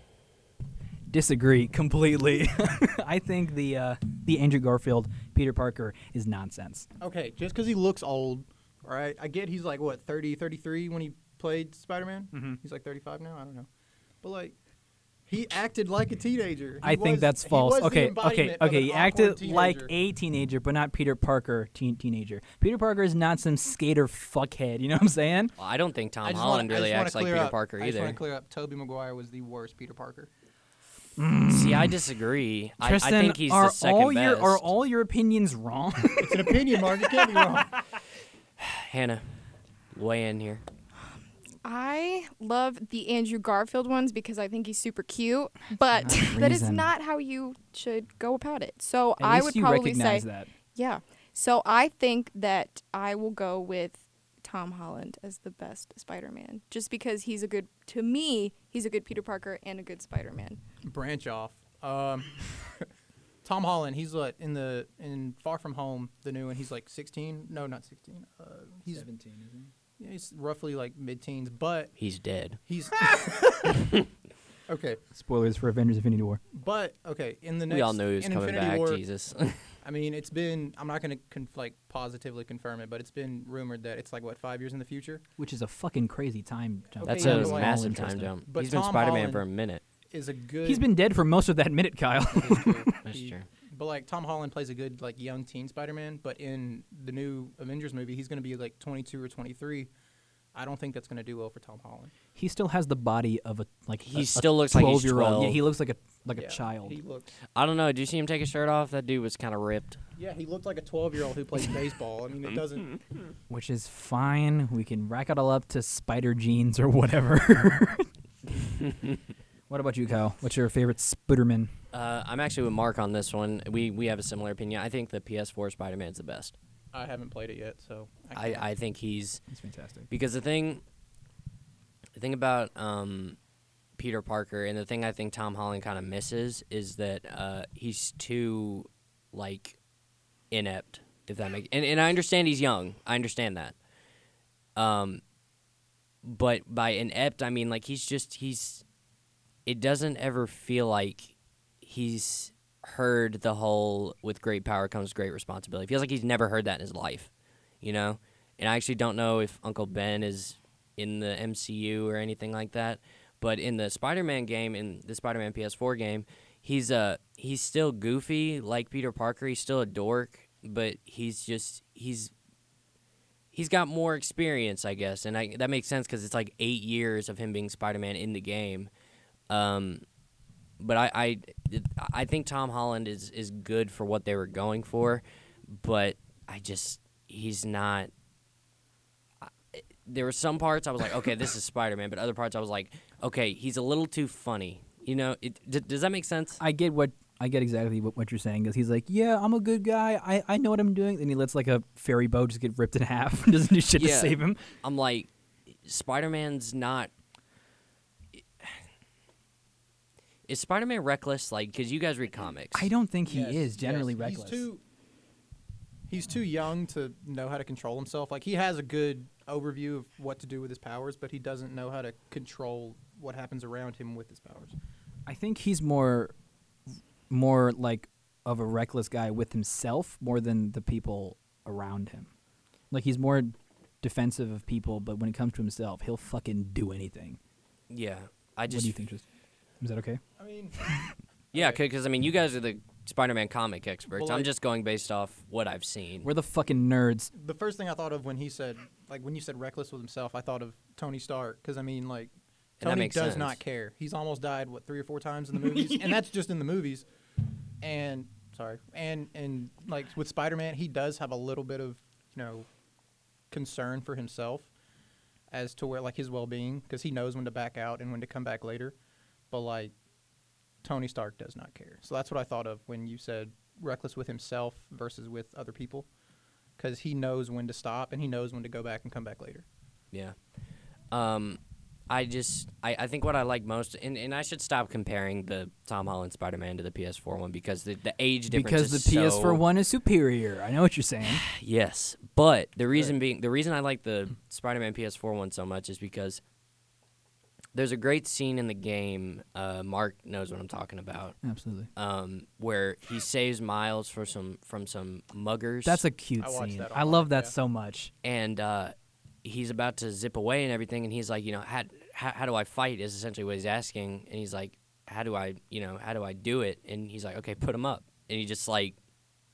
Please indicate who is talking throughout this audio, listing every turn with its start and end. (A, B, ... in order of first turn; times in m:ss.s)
0:01.1-0:06.9 A
0:07.0-0:13.7 B
0:12.3-0:12.6 A
0:14.2-0:14.6 B
0:15.3-0:19.9 B
0:16.8-0:25.5 A
0:25.6-0:28.2 C
0:26.2-0:30.3 B
0:31.2-0:32.0 A
0:31.5-0:34.6 C
0:32.8-0:37.1 A
0:36.2-0:37.8 B
0:38.6-0:39.2 C
0:39.9-0:40.6 C
0:41.6-1:00.6 D
0:46.0-0:46.9 A
0:49.2-0:50.5 A
1:00.8-1:02.9 B
1:03.4-1:09.1 B
1:08.9-1:09.7 A
1:10.0-1:11.9 B
1:12.0-1:12.6 C
1:12.7-1:13.7 B
1:14.7-1:15.0 B
1:15.1-1:16.4 A
1:16.5-1:19.0 B
1:17.7-1:19.6 C
1:19.8-1:25.2 B
1:25.4-1:28.3 A
1:27.0-1:27.9 B
1:27.0-1:29.8 C
1:28.5-1:29.4 B
1:30.1-1:30.9 B
1:30.6-1:33.0 A
1:32.3-1:39.9 B
1:33.0-1:33.4 C
1:40.5-1:42.1 B
1:42.3-1:47.0 A
1:44.0-1:45.6 C
1:46.3-1:47.3 B
1:47.6-1:50.0 C
1:50.2-1:53.0 B
1:53.5-1:58.1 A
1:59.7-2:01.7 A
2:01.9-2:06.5 C
2:06.9-2:08.6 B
2:08.3-2:09.4 C
2:09.5-2:10.1 A
2:10.1-2:10.8 C
2:12.2-2:13.4 C
2:14.0-2:19.8 C
2:20.5-2:23.8 C
2:24.8-2:25.2 C
2:26.2-2:28.8 C
2:29.6-2:37.3 C
2:37.8-2:52.3 C
2:53.5-2:58.9 C
2:59.5-3:00.0 C
3:00.8-3:08.1 C
3:09.4-3:16.6 C
3:16.6-3:24.6 A
3:24.0-3:27.1 C
3:28.3-3:28.7 C
3:30.5-3:32.9 C
3:32.7-3:34.6 A
3:33.3-3:34.8 B
3:36.1-3:44.7 B
3:45.2-3:46.3 A
3:47.3-3:52.3 A
3:52.9-3:57.4 A
3:57.9-3:58.9 C
3:58.7-3:59.2 A
3:59.8-4:00.2 A
4:00.4-4:00.8 B
4:00.8-4:01.1 A
4:01.5-4:01.8 B
4:01.5-4:06.3 C
4:04.1-4:04.5 B
4:06.2-4:07.3 A
4:07.3-4:17.1 B
4:12.8-4:13.6 C
4:15.6-4:16.2 A
4:17.8-4:22.7 B
4:23.5-4:24.7 B
4:25.5-4:29.0 B
4:29.5-4:29.9 B
4:30.8-4:36.1 B
4:36.8-4:39.6 B
4:41.1-4:41.6 C
4:42.1-4:49.6 C
4:48.5-4:51.4 A
4:51.2-4:56.4 C
4:57.7-5:01.4 C
5:01.4-5:01.9 A
5:02.0-5:06.0 C
5:05.8-5:08.1 A
5:06.4-5:07.5 B
5:08.2-5:19.0 C